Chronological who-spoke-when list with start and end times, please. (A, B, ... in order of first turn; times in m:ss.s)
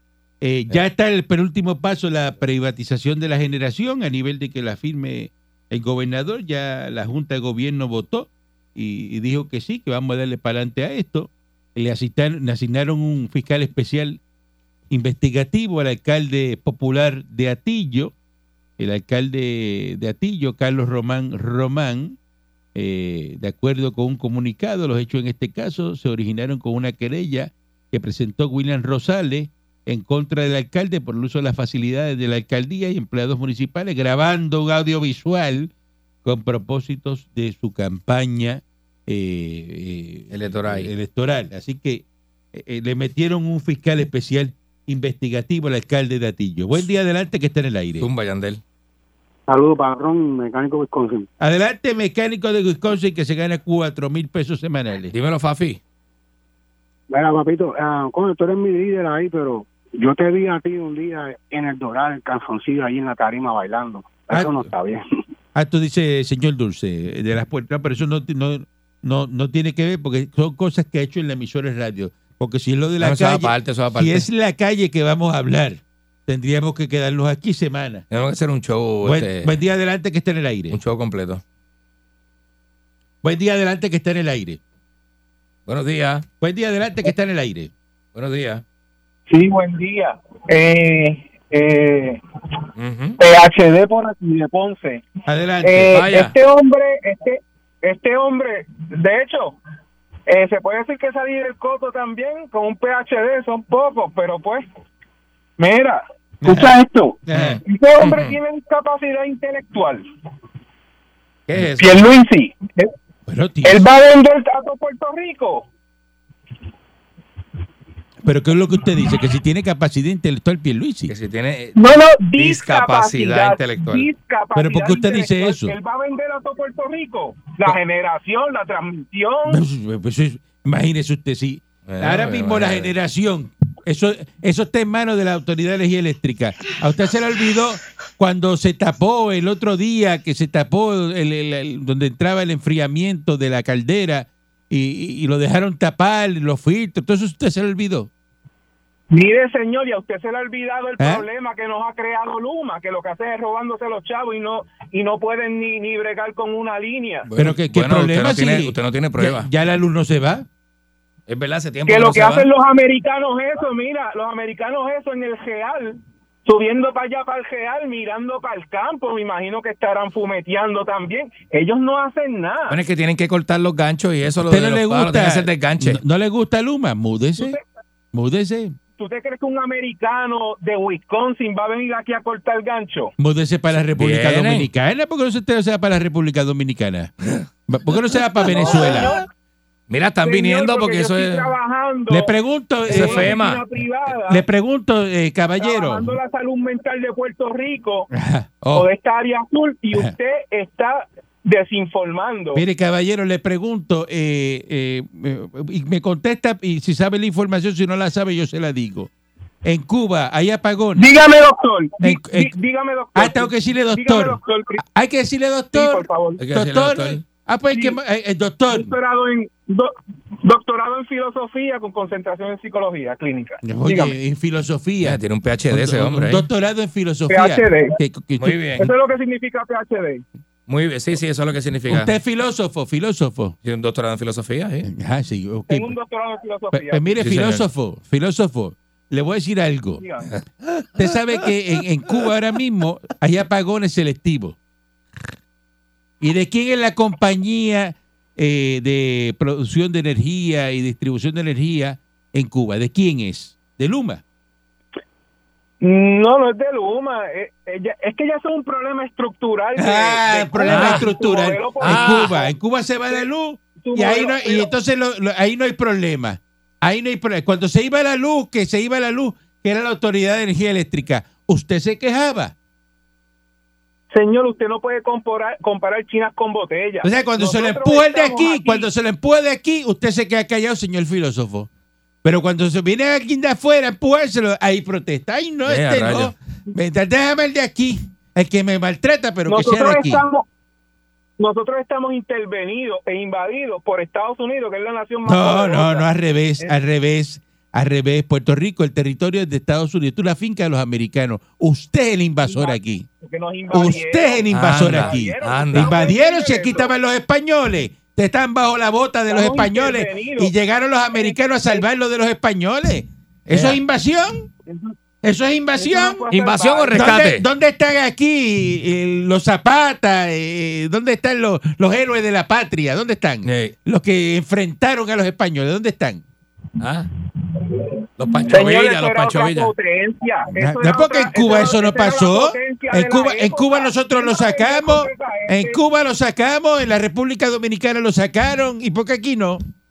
0:00.4-0:14.2 A
0:14.9-0:18.1 A
0:18.8-0:22.2 A
0:22.7-0:35.7 A
0:36.2-0:48.1 A
0:40.3-0:40.9 B
0:48.0-0:48.6 B
0:49.5-0:51.3 C
0:51.4-0:55.1 A
0:55.1-0:55.8 B
0:57.1-1:05.0 C
1:04.3-1:04.6 A
1:05.5-1:18.0 A
1:13.0-1:14.3 B
1:18.1-1:19.5 B
1:19.0-1:20.8 A
1:20.7-1:21.4 B
1:23.2-1:24.6 A
1:25.7-1:26.2 B
1:26.4-1:27.7 A
1:28.1-1:28.6 B
1:29.3-1:32.2 D
1:32.8-1:33.2 B
1:33.2-1:35.1 D
1:35.3-1:36.0 A
1:35.6-1:39.6 D
1:35.9-1:36.3 B
1:40.3-1:44.6 D
1:45.6-1:50.0 D
1:46.4-1:46.7 A
1:47.3-1:47.6 A
1:47.3-1:48.4 B
1:51.5-1:52.0 B
1:51.8-1:52.9 D
1:53.3-1:53.8 A
1:53.6-1:55.7 D
1:58.2-2:01.1 A
2:01.1-2:01.8 B
2:01.8-2:09.6 D
2:02.4-2:04.1 B
2:04.5-2:05.8 A
2:09.5-2:28.1 A
2:11.8-2:12.9 B
2:29.1-2:37.3 D
2:31.0-2:31.2 A
2:37.2-2:39.5 B
2:37.4-2:40.5 A
2:41.3-2:42.5 B
2:41.8-2:52.8 D
2:52.7-2:56.0 B
2:54.5-2:57.6 A
2:57.4-2:57.6 D
2:58.1-2:58.8 A
2:59.0-3:03.1 D
3:03.2-3:07.1 A
3:03.9-3:04.7 B
3:07.7-3:09.2 A
3:08.4-3:09.1 B
3:08.4-3:09.2 D
3:09.9-3:11.5 B
3:10.2-3:12.3 D
3:12.1-3:13.3 A
3:12.8-3:14.4 D
3:12.9-3:13.6 B
3:14.2-3:16.2 A
3:15.6-3:18.1 D
3:18.1-3:18.9 A
3:18.7-3:22.6 D
3:22.5-3:29.1 A
3:29.6-3:31.1 A
3:31.0-3:34.8 D
3:32.0-3:32.6 A
3:33.1-3:38.9 A
3:35.7-3:36.4 D
3:36.4-3:37.2 B
3:37.7-3:38.0 D
3:38.7-3:44.2 D
3:43.6-3:48.6 A
3:45.0-3:46.5 B
3:47.3-3:48.0 D
3:48.4-3:48.9 B
3:48.8-3:50.2 D
3:50.7-3:52.1 B
3:51.9-3:53.6 A
3:53.6-3:54.9 B
3:54.8-3:55.9 A
3:55.7-3:57.1 D
3:56.7-4:00.0 A
3:57.2-3:57.7 B
4:00.0-4:00.3 D
4:00.3-4:01.0 B
4:01.0-4:04.6 A
4:06.2-4:14.2 A
4:15.8-4:22.5 D
4:19.8-4:32.5 A
4:20.6-4:21.1 B
4:21.8-4:22.4 B
4:23.8-4:24.7 D
4:34.1-4:38.9 D
4:37.0-4:41.7 A
4:42.2-4:50.2 A
4:45.6-4:46.3 B
4:49.5-4:50.4 D
4:51.4-4:56.1 D
4:55.2-5:03.0 A
5:02.4-5:06.9 D
5:03.7-5:14.5 A
5:04.5-5:06.0 B
5:09.3-5:10.5 D
5:11.1-5:11.8 D
5:13.5-5:13.8 B
5:14.6-5:14.9 D
5:15.2-5:16.2 A
5:15.7-5:17.0 D
5:16.3-5:17.4 B
5:16.9-5:26.2 A
5:23.4-5:23.7 B
5:26.8-5:27.1 B
5:28.2-5:29.7 B
5:28.5-5:35.8 D
5:30.6-5:39.6 A